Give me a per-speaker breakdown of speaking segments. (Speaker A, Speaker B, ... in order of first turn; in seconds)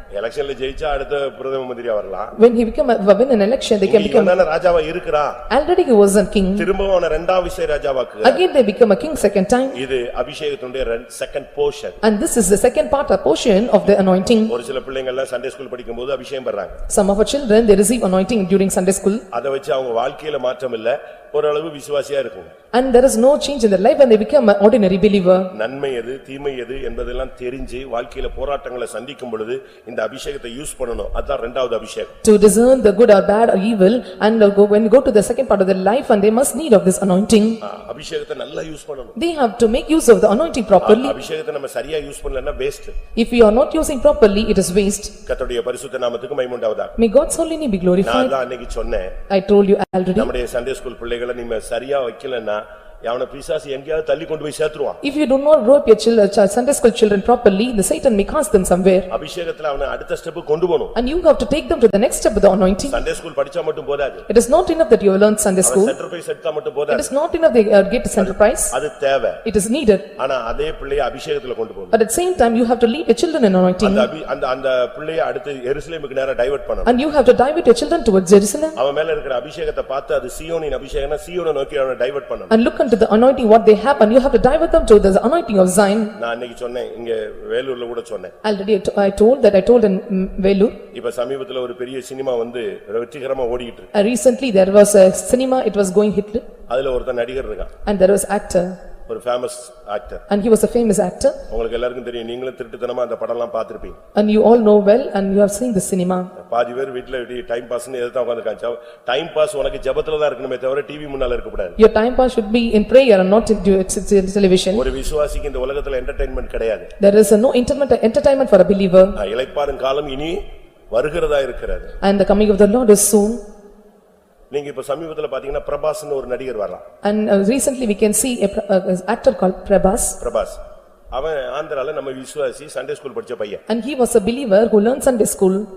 Speaker A: 0.1-2.3, 3.8-5.4, 6.6-8.4, 9.7-12.0, 14.5-16.8, 19.3-22.5, 25.5-32.2, 37.6-39.2, 40.8-42.9, 45.2-46.9, 48.0-49.2, 50.2-55.0, 59.1-61.0, 62.9-64.3, 65.6-67.1, 68.2-69.4, 70.2-71.9, 73.8-76.9, 78.8-82.5, 86.2-88.3, 90.9-93.9, 96.7-97.7, 99.1-100.2, 101.5-104.0, 106.4-111.8, 114.7-116.9, 119.2-121.9, 124.5-126.8, 130.2-130.6, 131.1-133.6
Speaker B: 2.4-4.4, 5.5-6.7, 8.2-9.8, 12.0-14.5, 16.9-19.2, 22.7-25.5, 32.2-37.6, 39.2-41.2, 43.2-45.1, 47.0-48.3, 49.3-50.3, 55.0-59.1, 61.0-63.0, 64.3-66.0, 66.9-68.8, 69.4-70.1, 71.9-74.1, 76.8-78.8, 82.5-86.1, 88.4-90.8, 93.9-96.4, 97.8-98.8, 100.3-101.4, 104.1-106.3, 111.8-114.9, 117.0-119.2, 122.0-123.4, 127.0-130.2, 133.7-135.7